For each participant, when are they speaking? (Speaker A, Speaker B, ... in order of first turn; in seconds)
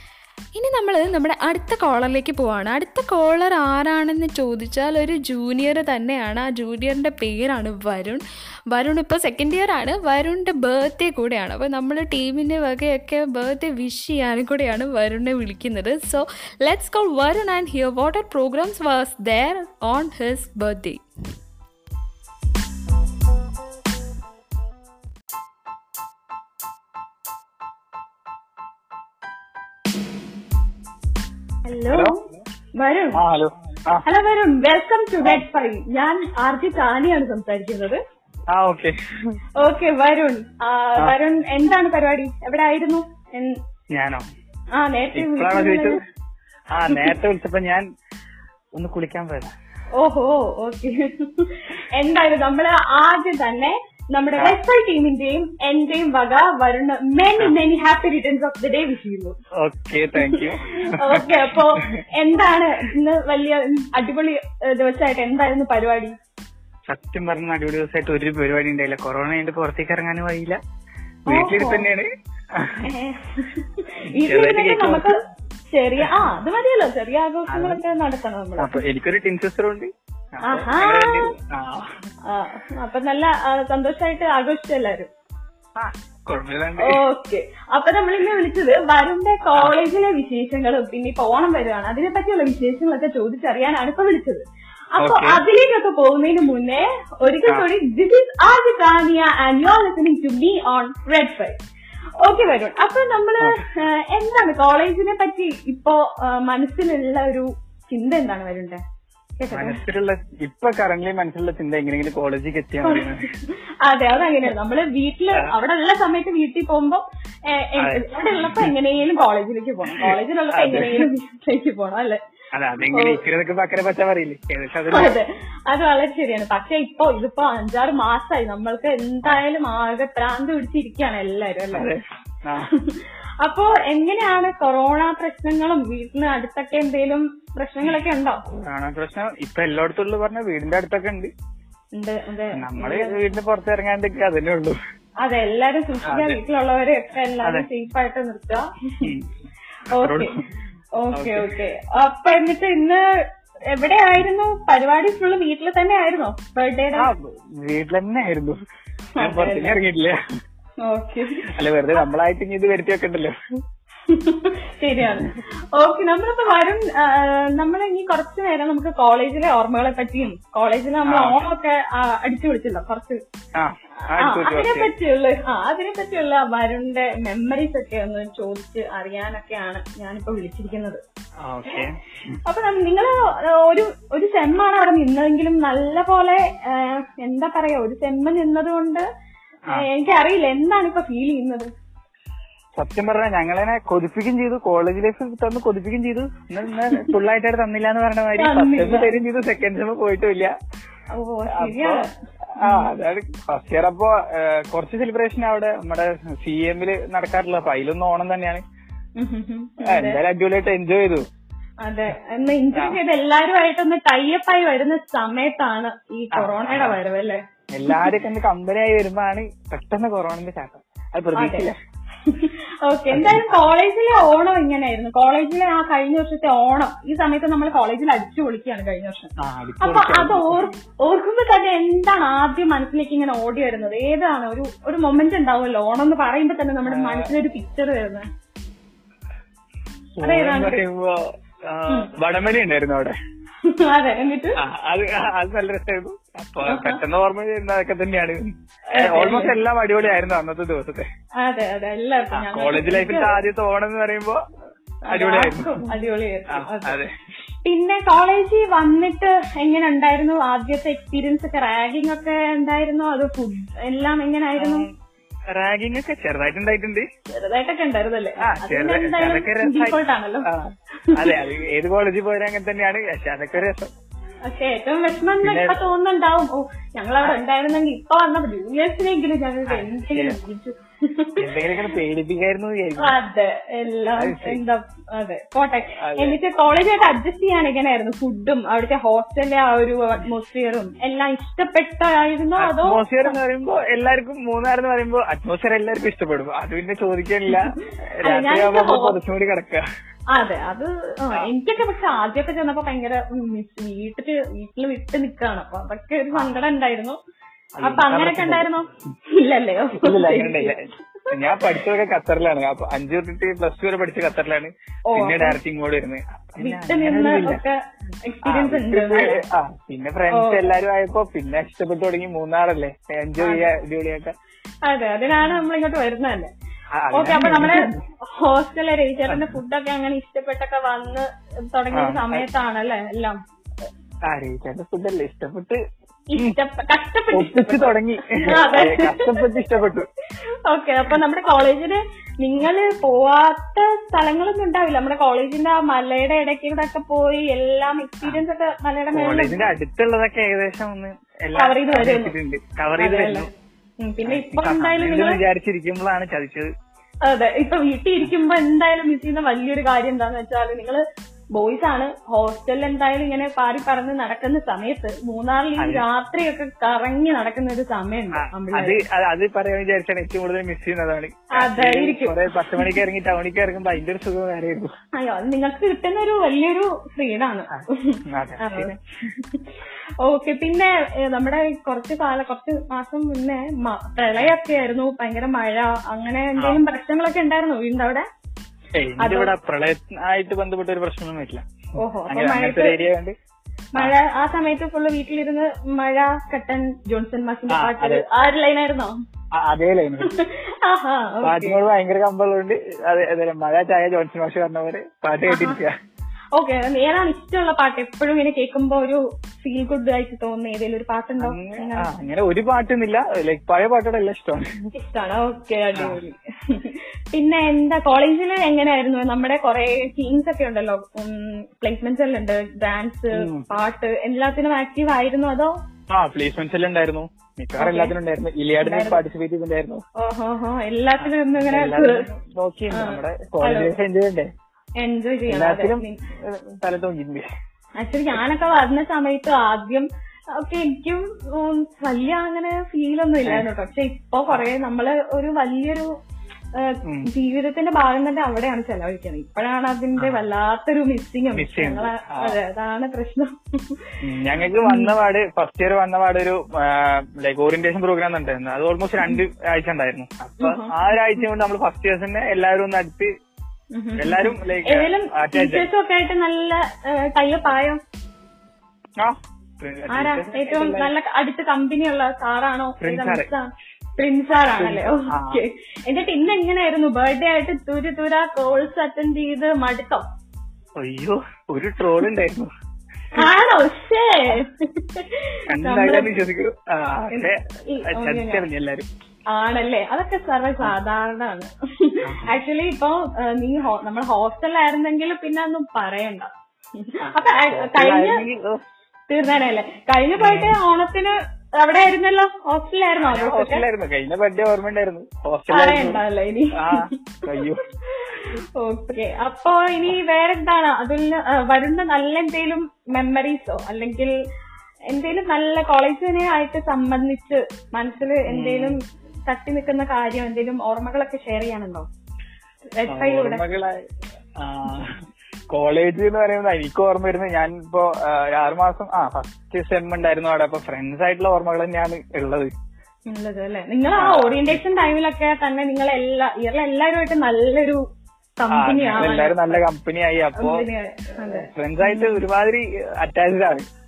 Speaker A: 0.6-21.0
Speaker B: 31.7-32.2, 32.8-33.2, 34.0-38.0, 39.6-43.6, 44.8-46.0, 46.9-47.1, 50.0-59.4, 60.2-66.2, 71.3-71.9, 72.8-75.2, 75.7-78.7, 80.5-81.3, 82.3-85.1, 86.8-94.4, 95.0-101.6, 102.2-108.8, 109.4-109.8, 112.8-122.2, 122.9-123.2, 124.9-131.9, 132.7-138.4, 142.0-143.2, 145.2-149.1, 149.9-150.3, 151.0-153.0, 153.7-157.1, 159.2-159.8, 160.8-161.5, 164.1-173.2, 174.2-181.0, 182.5-189.1, 189.7-191.7, 198.4-199.1, 201.2-202.1, 202.6-202.9, 209.2-210.2, 211.8-218.1, 221.4-221.7, 222.2-238.3, 240.2-240.7, 243.6-244.6, 246.7-247.0, 248.9-249.5, 251.4-253.4, 255.1-257.0, 257.6-264.9, 267.3-270.5, 271.1-271.4, 274.5-281.4, 283.0-293.3, 297.5-299.2, 300.3-307.2, 307.8-310.7, 311.2-311.8, 315.1-315.6, 316.6-319.4, 320.3-320.6, 323.4-323.7, 324.9-326.5, 327.1-333.4, 336.3-339.5, 340.6-349.7, 351.6-352.3, 353.0-353.5, 354.0-355.4, 357.3-369.0, 371.6-373.0, 375.1-388.3, 389.2-389.5, 392.0-393.0, 393.9-399.2, 400.2-401.8, 405.5-405.8, 406.6-412.1, 414.9-425.8, 427.8-428.1, 428.8-429.2, 430.2-432.3, 432.9-433.9, 435.0-436.2, 438.0-446.1, 446.8-454.2, 454.8-455.1, 460.6-460.9, 463.9-468.0, 470.1-480.3, 483.3-486.4, 487.3-488.6, 489.5-498.4, 499.3-503.9, 505.7-507.6, 508.1-514.3, 515.1-522.1, 522.9-523.6, 533.3-538.0, 538.6-539.8, 540.6-542.4
Speaker C: 33.2-34.0, 38.5-39.4, 43.9-44.2, 45.1-46.0, 46.7-47.9, 48.7-49.5, 59.6-61.8, 66.9-70.6, 71.3-72.8, 74.2-75.1, 77.5-77.8, 78.6-81.9, 85.8-87.0, 95.0-95.4, 109.5-113.3, 117.8-118.7, 119.9-121.1, 122.5-125.2, 131.7-132.7, 138.5-141.3, 142.6-144.8, 146.1-146.4, 150.0-150.3, 151.2-151.5, 157.0-158.6, 159.2-160.2, 161.5-163.3, 165.0-165.3, 171.1-171.4, 173.6-174.9, 181.4-182.4, 192.8-200.5, 201.6-202.0, 202.6-208.6, 209.8-211.3, 216.3-217.0, 217.7-221.8, 223.1-223.6, 229.4-230.7, 236.9-237.3, 240.2-243.1, 244.6-251.1, 252.4-254.4, 255.1-255.9, 256.5-257.1, 264.6-264.9, 265.5-267.1, 268.4-273.9, 275.4-275.8, 279.7-280.4, 281.4-283.1, 284.2-284.6, 286.0-286.4, 292.6-299.9, 307.8-308.7, 310.0-317.6, 318.4-324.3, 326.9-328.0, 329.3-329.5, 331.9-332.4, 334.3-335.8, 337.3-340.1, 349.1-353.5, 354.2-356.7, 365.8-366.0, 368.4-374.9, 377.7-378.9, 388.9-391.6, 392.3-393.4, 397.7-398.2, 399.6-400.3, 401.4-405.9, 411.4-414.8, 423.3-423.6, 426.1-430.0, 431.2-434.5, 435.5-437.5, 451.6-452.6, 454.2-463.3, 464.2-465.9, 469.2-471.1, 473.0-473.5, 474.8-475.6, 481.0-482.7, 485.7-487.6, 488.1-489.1, 497.7-498.8, 500.4-500.8, 503.2-506.2, 506.7-507.8, 518.5-519.0, 523.1-524.0, 524.6-525.2, 525.7-532.7, 534.1-534.8, 538.7-540.9, 541.5-543.9